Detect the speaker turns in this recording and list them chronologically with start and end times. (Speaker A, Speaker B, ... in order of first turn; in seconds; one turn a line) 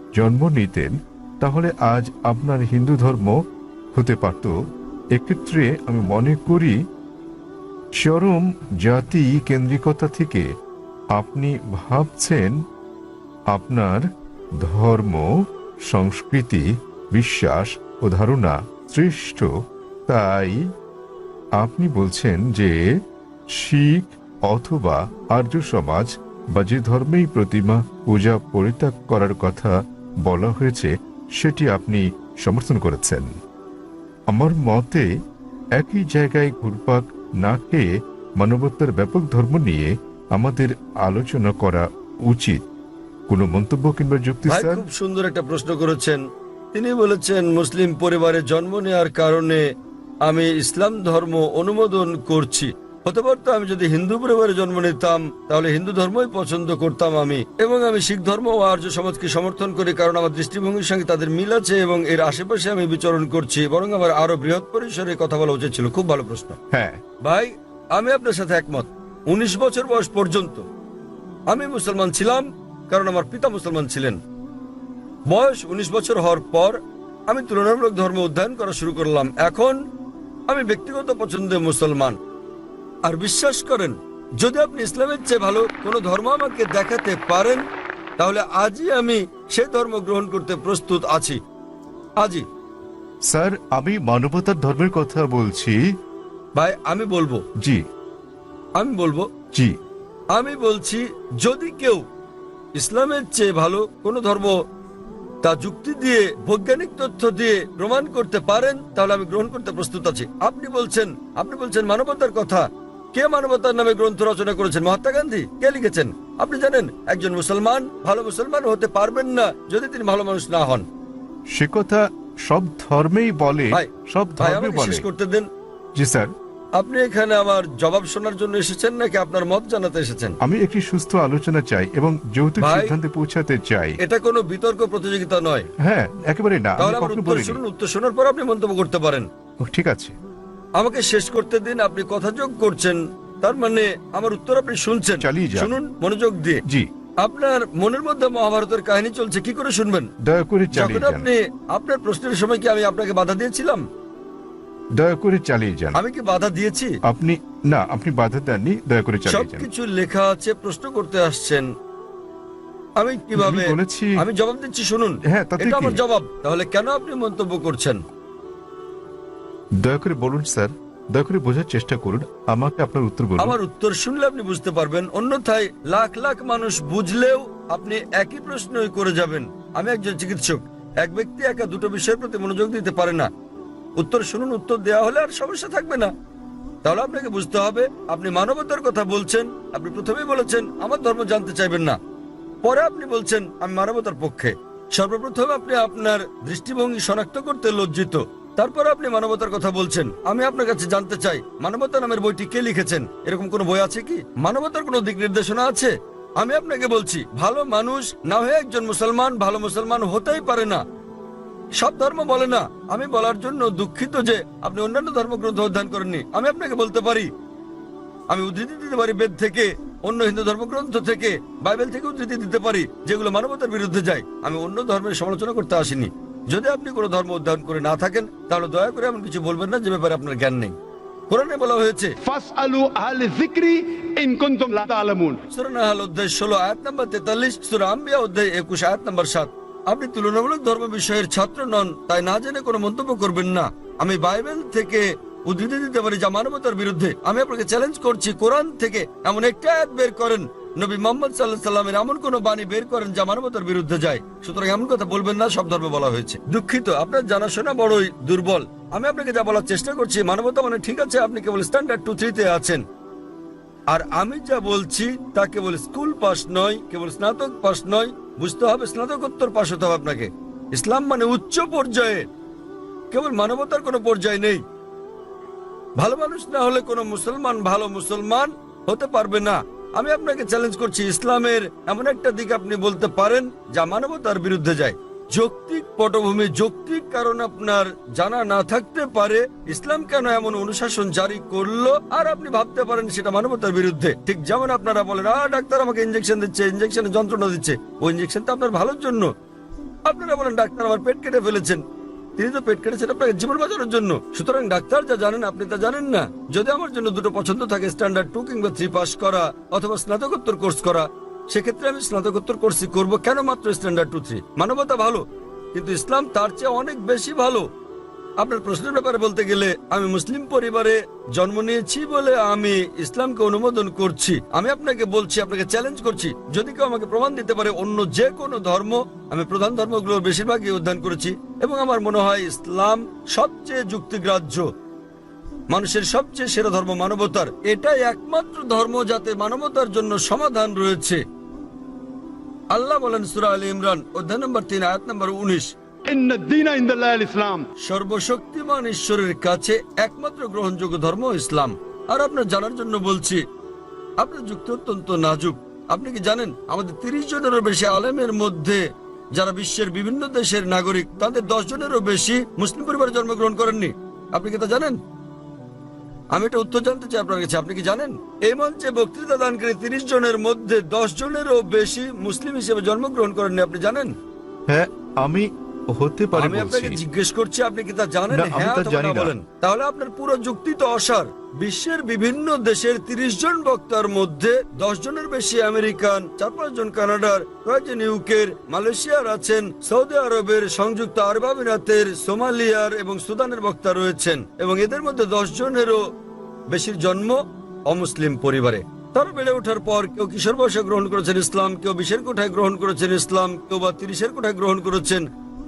Speaker A: 0.1-3.4
Speaker A: 3.9-4.5
Speaker A: 5.1-6.8
Speaker A: 8.0-10.5
Speaker A: 11.1-12.6
Speaker A: 13.5-14.0
Speaker A: 14.6-15.3
Speaker A: 15.8-19.5
Speaker A: 20.1-20.6
Speaker A: 21.6-22.8
Speaker A: 23.5-33.3
Speaker A: 34.3-35.0
Speaker A: 35.8-37.9
Speaker A: 38.4-42.6
Speaker A: 43.3-44.8
Speaker B: 44.4-49.6
Speaker B: 50.2-66.6
Speaker A: 66.7-67.0
Speaker B: 67.2-70.6
Speaker B: 71.5-74.2
Speaker B: 75.3-79.8
Speaker B: 80.5-82.2
Speaker B: 83.0-87.6
Speaker B: 88.2-91.4
Speaker A: 93.2-95.8
Speaker B: 96.5-97.4
Speaker B: 98.8-99.3
Speaker B: 100.3-102.0
Speaker B: 102.8-104.5
Speaker B: 105.4-120.8
Speaker A: 121.5-125.0
Speaker B: 124.4-125.5
Speaker A: 126.0-126.3
Speaker B: 126.8-130.3
Speaker A: 130.4-134.0
Speaker B: 132.6-132.9
Speaker B: 134.0-135.7
Speaker A: 135.8-137.6
Speaker B: 136.8-139.3
Speaker A: 139.6-140.1
Speaker B: 140.8-146.6
Speaker A: 145.2-145.7
Speaker B: 147.2-150.1
Speaker A: 150.2-151.3
Speaker B: 150.7-153.8
Speaker A: 154.9-156.0
Speaker B: 155.9-156.9
Speaker A: 157.1-159.7
Speaker B: 159.3-161.7
Speaker B: 163.0-168.0
Speaker A: 163.4-164.2
Speaker A: 165.3-166.0
Speaker A: 169.8-173.6
Speaker B: 173.4-183.3
Speaker B: 184.0-186.1
Speaker B: 186.8-192.0
Speaker B: 192.6-210.8
Speaker B: 211.8-217.3
Speaker B: 218.3-230.7
Speaker B: 231.3-232.2
Speaker C: 232.2-235.4
Speaker B: 235.5-262.8
Speaker B: 263.9-272.3
Speaker B: 273.1-274.6
Speaker B: 276.0-299.3
Speaker B: 300.1-301.8
Speaker B: 302.4-315.2
Speaker B: 315.7-317.6
Speaker B: 318.4-334.6
Speaker B: 335.7-341.2
Speaker B: 342.7-345.7
Speaker C: 346.1-347.7
Speaker B: 347.8-353.4
Speaker B: 354.2-358.8
Speaker B: 359.3-365.0
Speaker B: 366.3-374.1
Speaker A: 374.7-377.0
Speaker B: 376.3-396.0
Speaker A: 378.3-379.3
Speaker B: 396.7-405.2